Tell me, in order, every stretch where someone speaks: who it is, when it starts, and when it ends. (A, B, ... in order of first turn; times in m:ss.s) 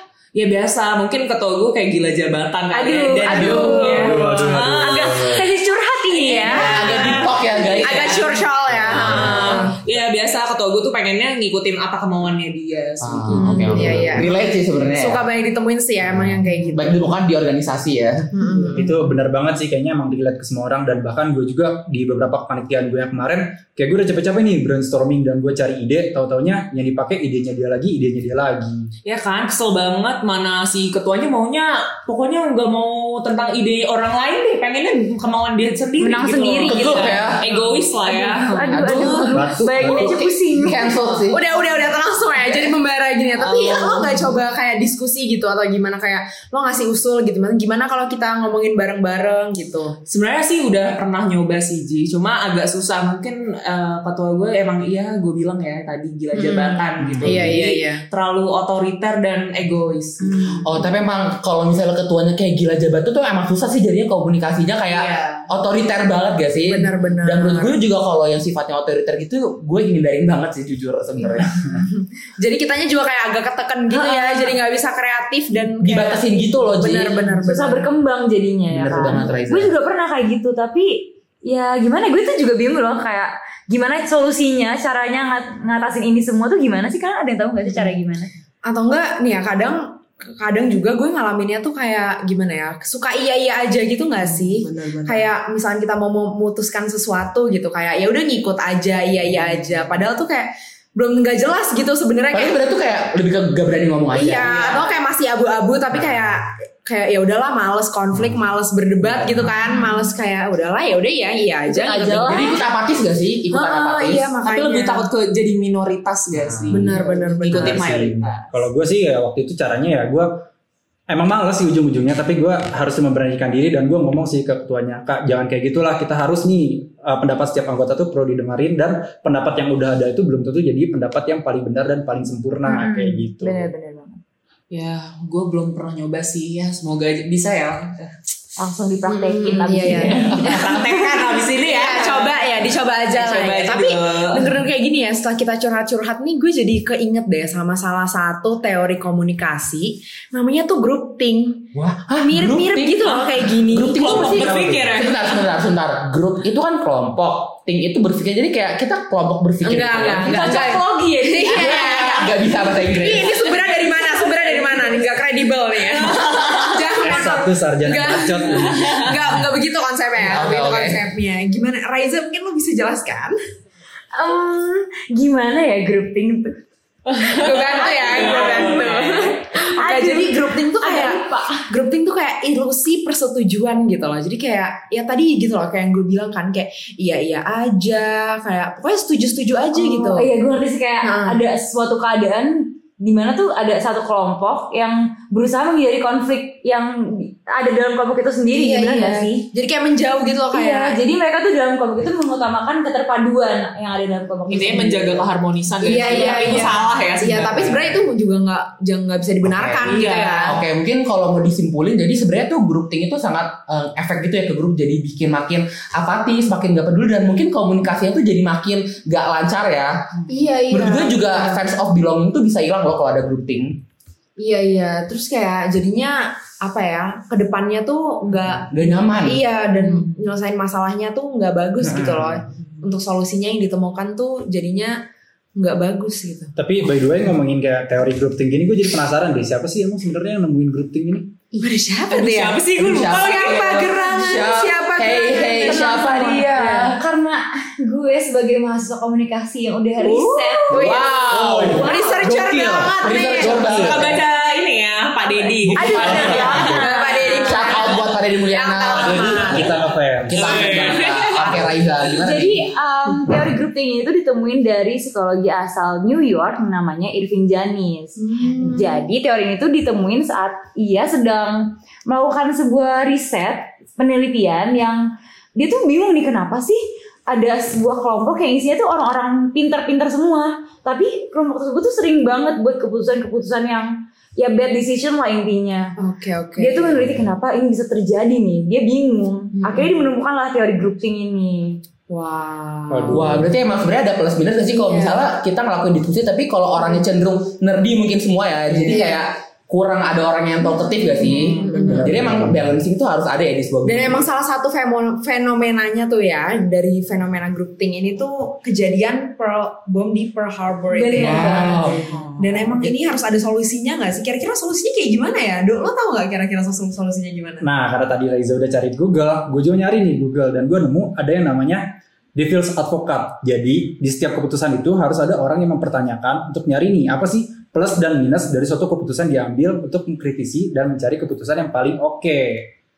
0:00.3-0:05.1 A
0:02.7-0:06.7 B
0:03.4-0:05.4 C
0:06.2-0:14.2 A
0:06.4-0:07.1 D
0:06.4-0:08.2 E
0:07.8-0:09.7 D
0:13.0-0:15.2 E
0:13.3-0:14.3 D
0:14.9-0:17.0 D
0:16.7-0:18.4 E
0:18.3-0:18.9 D
0:18.7-0:28.9 C
0:29.0-0:39.2 A
0:36.0-0:37.4 B
0:36.6-0:37.4 E
0:38.1-0:41.1 B
0:38.7-0:41.4 E
0:39.3-0:40.1 C
0:41.3-0:50.0 D
0:43.4-0:44.4 A
0:50.1-1:00.5 A
0:56.3-0:58.0 D
0:57.0-0:57.5 C
1:00.5-1:11.5 E
1:04.9-1:05.5 D
1:06.7-1:07.8 D
1:11.6-1:17.9 D
1:13.9-1:14.5 B
1:15.8-1:17.3 E
1:17.4-1:28.3 B
1:18.7-1:19.7 E
1:28.6-1:42.6 D
1:34.2-1:35.3 A
1:42.3-1:44.8 E
1:44.1-1:52.5 D
1:44.4-1:45.0 A
1:51.7-1:52.6 B
1:52.2-1:54.3 E
1:53.5-1:55.1 D
1:54.4-1:58.6 A
1:56.7-1:57.8 D
1:57.6-2:00.3 C
2:01.1-2:13.7 C
2:12.6-2:14.2 B
2:14.7-2:18.1 A
2:18.6-2:20.7 B
2:19.1-2:31.7 D
2:19.9-2:22.4 A
2:23.1-2:24.6 A
2:31.7-2:33.0 E
2:32.2-2:34.5 D
2:33.6-2:40.6 E
2:34.0-2:35.2 A
2:39.6-2:42.3 D
2:40.2-2:42.0 B
2:41.4-2:43.3 E
2:42.8-2:53.4 D
2:47.0-2:49.4 C
2:50.2-2:51.0 E
2:54.1-2:56.6 B
2:57.1-3:10.3 D
2:57.5-2:59.4 A
2:57.8-2:58.8 B
2:59.5-3:01.6 B
3:09.7-3:19.5 B
3:11.0-3:11.4 D
3:18.5-3:21.0 D
3:20.5-3:25.3 B
3:24.5-3:27.9 A
3:25.8-3:30.6 D
3:25.8-3:26.7 B
3:29.4-3:29.8 E
3:29.8-3:30.6 A
3:30.4-3:39.9 E
3:40.3-3:41.6 D
3:40.7-3:43.8 E
3:44.4-3:55.0 D
3:48.7-3:49.4 E
3:49.8-3:50.1 A
3:51.8-3:52.1 E
3:55.6-3:56.5 D
3:56.6-4:01.3 C
4:01.6-4:06.9 D
4:02.1-4:03.9 A
4:02.8-4:07.0 E
4:05.6-4:11.0 B
4:10.0-4:10.7 A
4:10.7-4:13.8 D
4:10.7-4:11.9 E
4:11.3-4:14.1 C
4:11.8-4:12.1 B
4:13.0-4:14.2 E
4:13.6-4:16.7 A
4:15.7-4:16.8 C
4:15.7-4:17.9 B
4:16.0-4:19.6 D
4:17.3-4:22.6 E
4:18.9-4:20.9 C
4:20.4-4:21.9 A
4:22.1-4:35.0 B
4:28.2-4:29.0 D
4:35.6-4:45.9 B
4:46.0-4:46.9 D
4:46.6-4:51.8 B
4:47.0-4:47.3 C
4:49.6-4:50.0 D
4:52.1-4:53.2 D
4:52.9-4:53.5 C
4:53.1-5:04.2 E
4:54.6-4:55.2 D
4:58.8-4:59.2 D
5:01.2-5:02.2 D
5:01.9-5:02.5 C
5:03.8-5:17.6 D
5:10.9-5:12.0 B
5:11.2-5:12.1 E
5:17.6-5:21.8 C
5:22.3-5:32.7 C